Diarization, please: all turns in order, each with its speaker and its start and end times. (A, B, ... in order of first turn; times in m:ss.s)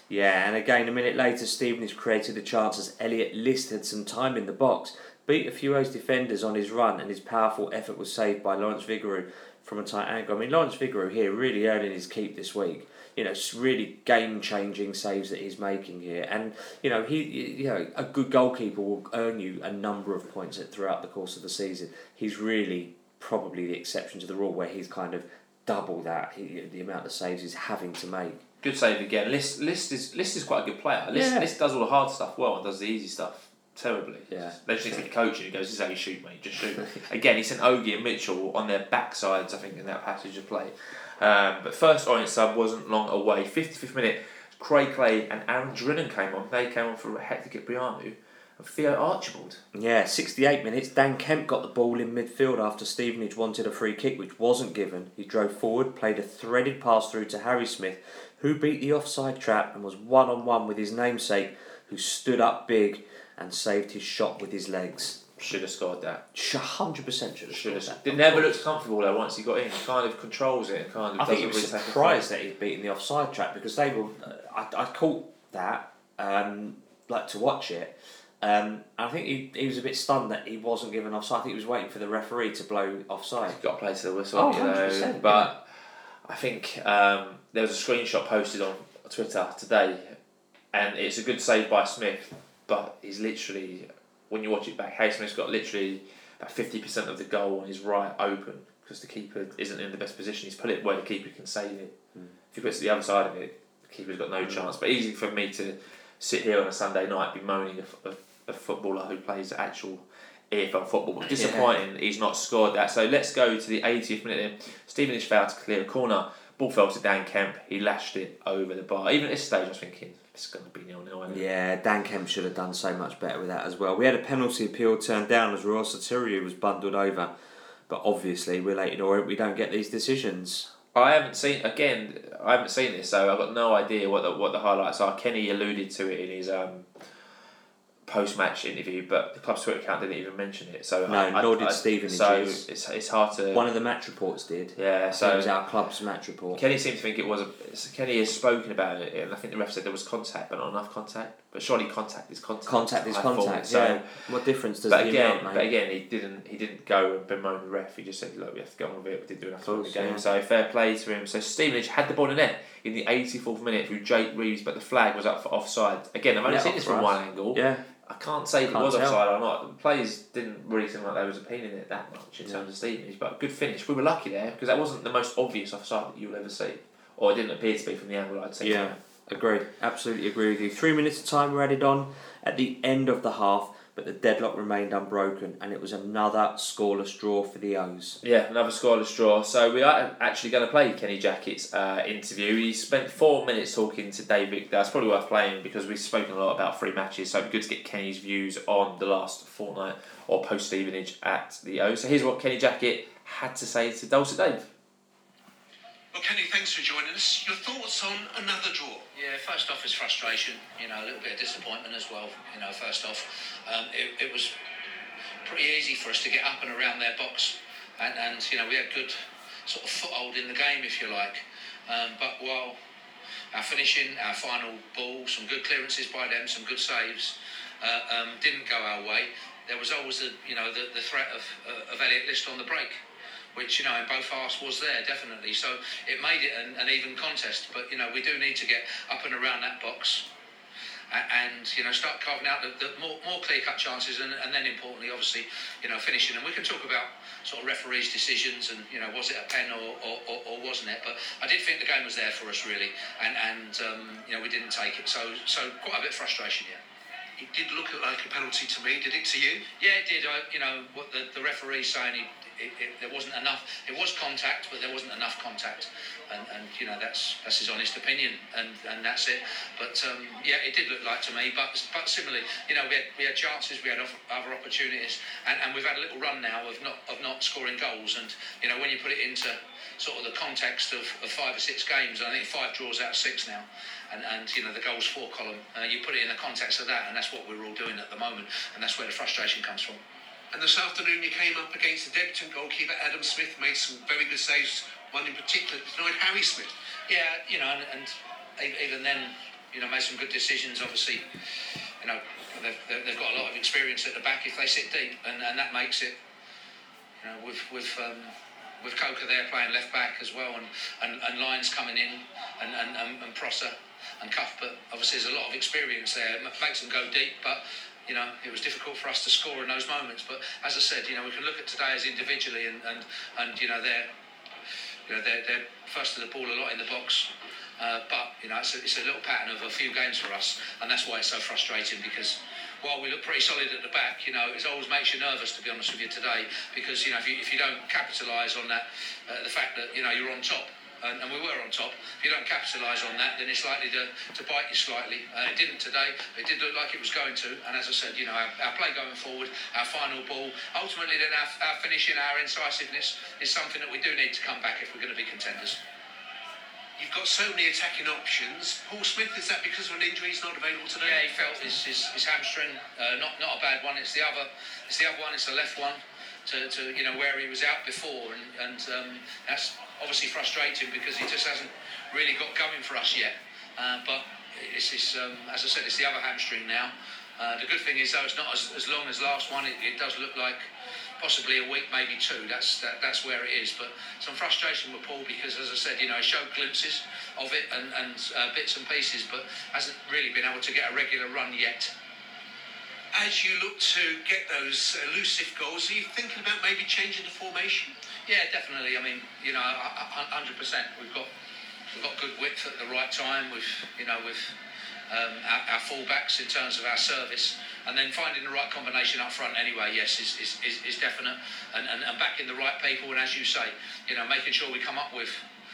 0:00.1-0:28.4 A
0:28.6-0:49.6 B
0:31.1-0:31.5 A
0:34.3-0:34.6 A
0:49.7-1:05.2 A
1:05.4-1:06.2 B
1:06.3-1:08.6 A
1:07.5-1:12.2 B
1:11.2-1:23.6 A
1:23.5-1:30.2 B
1:24.4-1:25.5 A
1:30.7-1:42.0 B
1:42.5-2:01.4 B
1:44.4-1:44.7 A
1:51.3-1:51.7 A
2:01.3-2:07.3 A
2:07.9-2:10.7 A
2:10.9-2:16.9 B
2:18.1-2:23.6 B
2:21.1-2:22.6 A
2:23.5-2:26.6 A
2:24.8-2:25.5 B
2:26.5-2:34.0 B
2:32.7-2:35.7 A
2:34.9-2:59.0 B
2:39.6-2:40.2 A
2:46.5-2:47.9 A
2:48.7-2:49.2 A
2:58.6-3:08.2 A
3:08.2-3:24.7 B
3:26.1-3:29.1 C
3:29.1-3:34.5 D
3:35.4-3:42.8 D
3:43.5-3:53.0 D
3:53.6-4:00.3 D
4:01.1-4:16.8 D
4:17.4-4:19.7 C
4:19.8-4:50.0 D
4:50.5-4:56.7 C
4:57.1-5:01.2 D
5:02.0-5:06.2 D
5:07.2-5:24.1 D
5:25.1-5:55.8 D
5:57.0-6:01.8 C
6:01.0-6:20.7 D
6:21.2-6:31.9 D
6:33.1-6:37.9 C
6:38.3-6:41.3 D
6:41.9-6:44.5 D
6:45.1-6:55.4 D